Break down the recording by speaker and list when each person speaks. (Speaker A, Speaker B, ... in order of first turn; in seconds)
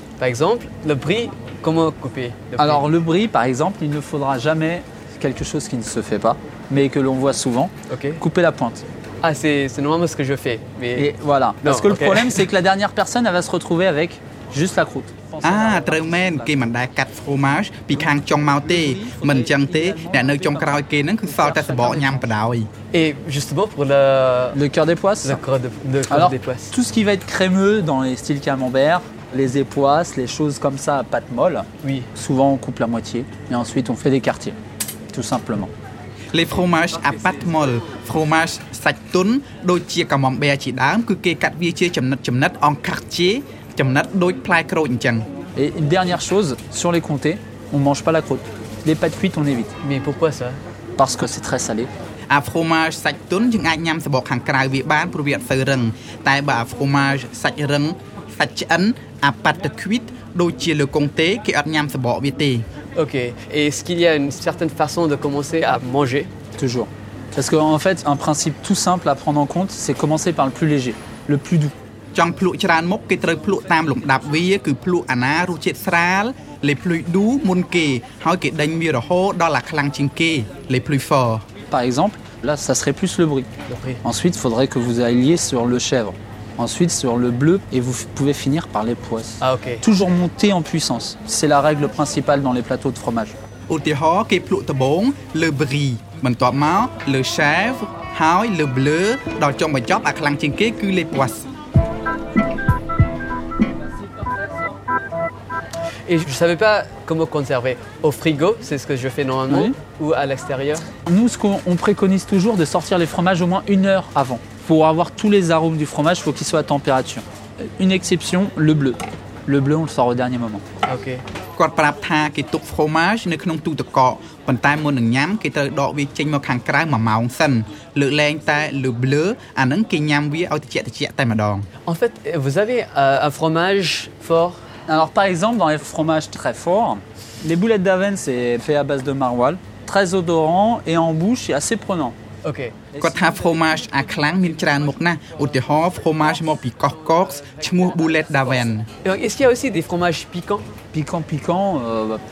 Speaker A: 0.2-2.9, 7.9-8.2, 9.2-11.1, 11.6-12.4, 22.9-24.6, 25.2-26.7, 31.8-32.1, 49.8-50.6, 63.0-66.3, 83.7-84.0, 89.4-89.8, 106.1-110.9, 120.8-121.2, 131.8-134.6, 142.4-142.8, 147.1-150.7
Speaker B: 2.6-8.8, 10.9-16.6, 18.3-22.2, 24.5-25.4, 26.1-34.6, 35.1-35.7, 45.5-49.7, 51.0-51.9, 66.6-71.7, 81.7-83.5, 84.0-93.3, 109.5-109.7, 111.0-117.2, 117.8-120.6, 134.9-142.2, 142.9-143.2, 150.9-152.2
Speaker C: 15.4-22.7, 36.3-45.2, 52.3-62.6, 72.1-81.4, 93.7-101.5, 121.5-131.7, 143.0-148.9